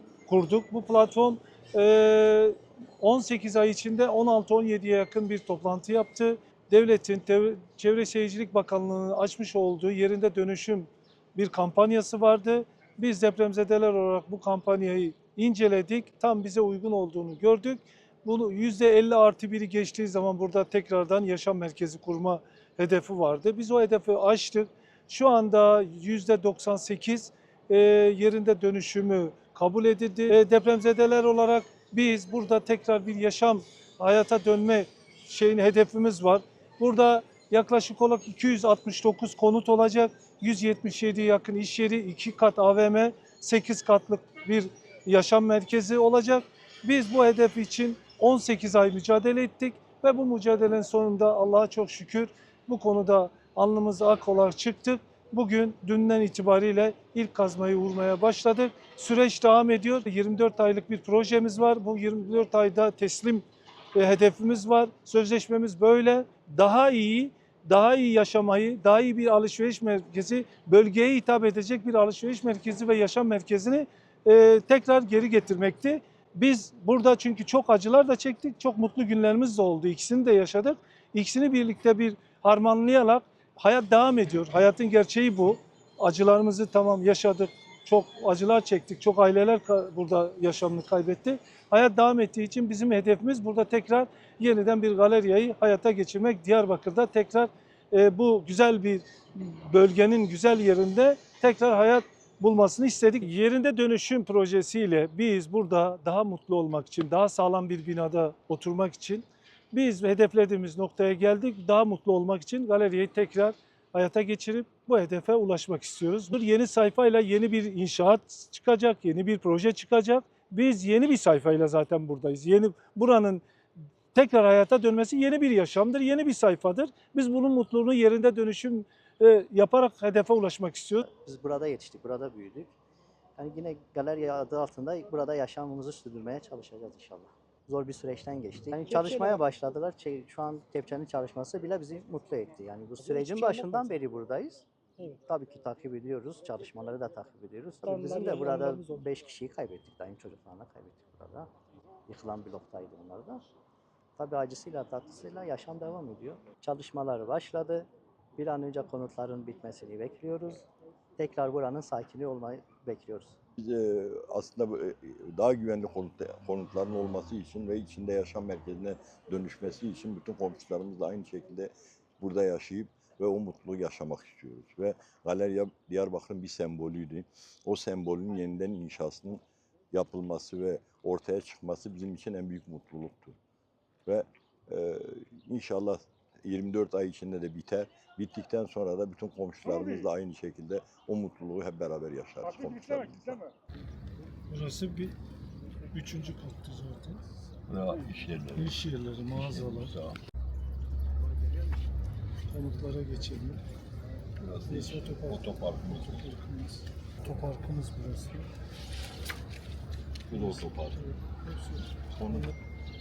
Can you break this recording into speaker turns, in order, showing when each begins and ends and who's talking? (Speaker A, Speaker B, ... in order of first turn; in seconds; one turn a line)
Speaker A: 0.2-123.4
Speaker A: 124.1-131.1
Speaker B: 131.1-132.7
Speaker B: 133.4-144.6
Speaker A: 138.9-139.4
Speaker A: 143.0-144.0
Speaker B: 145.2-151.5
Speaker A: 147.8-149.0
Speaker B: 152.1-153.4
Speaker B: 154.2-157.9
Speaker B: 158.4-160.6
Speaker B: 161.2-163.4
Speaker C: 163.6-183.4
Speaker C: 184.1-193.5
Speaker A: 194.5-195.2
Speaker A: 195.9-197.2
Speaker C: 197.7-198.8
Speaker A: 198.6-199.9
Speaker C: 199.3-200.2
Speaker A: 202.5-203.6
Speaker C: 204.4-206.2
Speaker A: 204.7-208.5
Speaker C: 210.3-211.0
Speaker A: 210.3-211.9
Speaker C: 212.1-212.5